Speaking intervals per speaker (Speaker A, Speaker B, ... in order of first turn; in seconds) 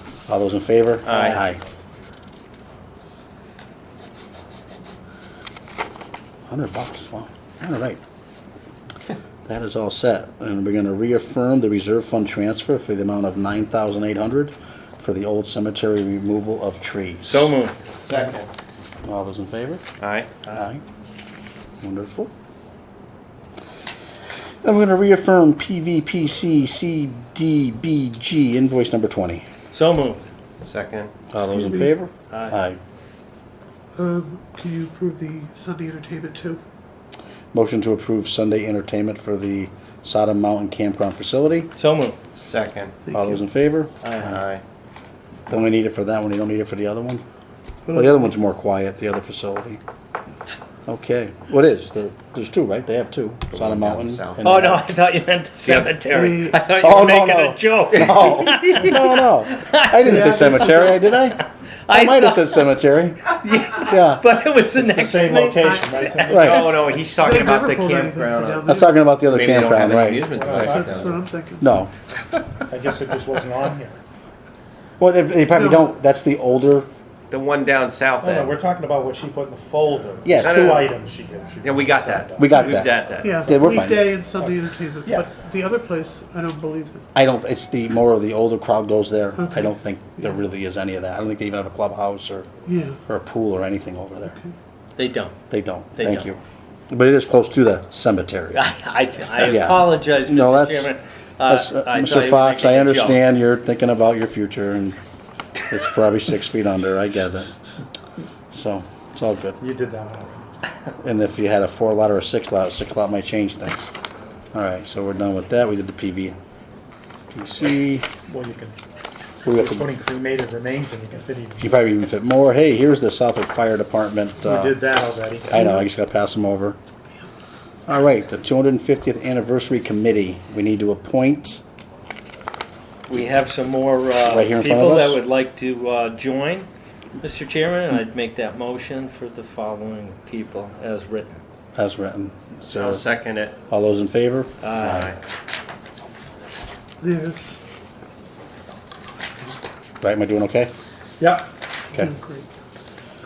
Speaker A: 0.3-1.6, 6.5-8.0, 9.5-17.5, 19.1-19.8, 20.5-20.8, 21.8-22.3, 24.6-29.4, 31.3-32.8, 37.5-41.7, 43.1-44.3, 45.5-47.2, 47.9-49.8, 50.9-54.8, 56.8-64.2, 66.3-66.8, 68.7-70.7, 71.6-71.9, 75.0-76.9, 80.2-80.9, 82.4-84.2, 87.2-92.5, 93.1-94.4, 95.5-96.4, 96.9-98.7, 99.3-100.9, 101.5-105.0, 105.7-107.5, 108.5-109.6, 111.0-113.9, 114.5-116.4, 117.3-118.1, 119.4-119.9, 121.6-124.8, 125.5-126.8, 127.9-131.6, 134.2-135.2, 141.8-143.0, 143.7-145.2, 150.0-150.7
Speaker B: 1.0-1.4, 18.0-18.5, 20.0-20.6, 30.6-31.1, 42.3-43.0, 44.2-44.6, 53.5-54.7, 55.6-55.9, 58.0-58.3, 66.3-71.2, 77.3-78.6, 80.4-80.9, 81.6-83.5, 142.7-143.5
Speaker C: 17.2-17.8, 29.7-30.3, 41.8-42.2, 44.0-44.4, 54.4-62.7, 63.3-66.7, 95.0-95.3, 96.0-96.3, 98.5-103.2, 133.1-136.7, 137.2-141.3, 144.6-145.1
Speaker D: 31.6-31.9, 34.0-36.6, 43.1-43.4, 47.9-48.3, 56.1-56.7, 60.0-61.0, 65.4-66.0, 67.1-69.0, 70.6-71.7, 75.5-75.8, 83.2-87.0, 89.4-89.7, 92.7-93.0, 94.3-94.5, 147.0-147.5, 151.9-152.5
Speaker E: 64.7-66.6, 70.3-71.2, 72.7-74.0, 78.2-82.5, 84.4-85.3, 109.6-110.5, 118.3-118.8, 119.5-121.8, 124.4-125.9, 151.2-151.5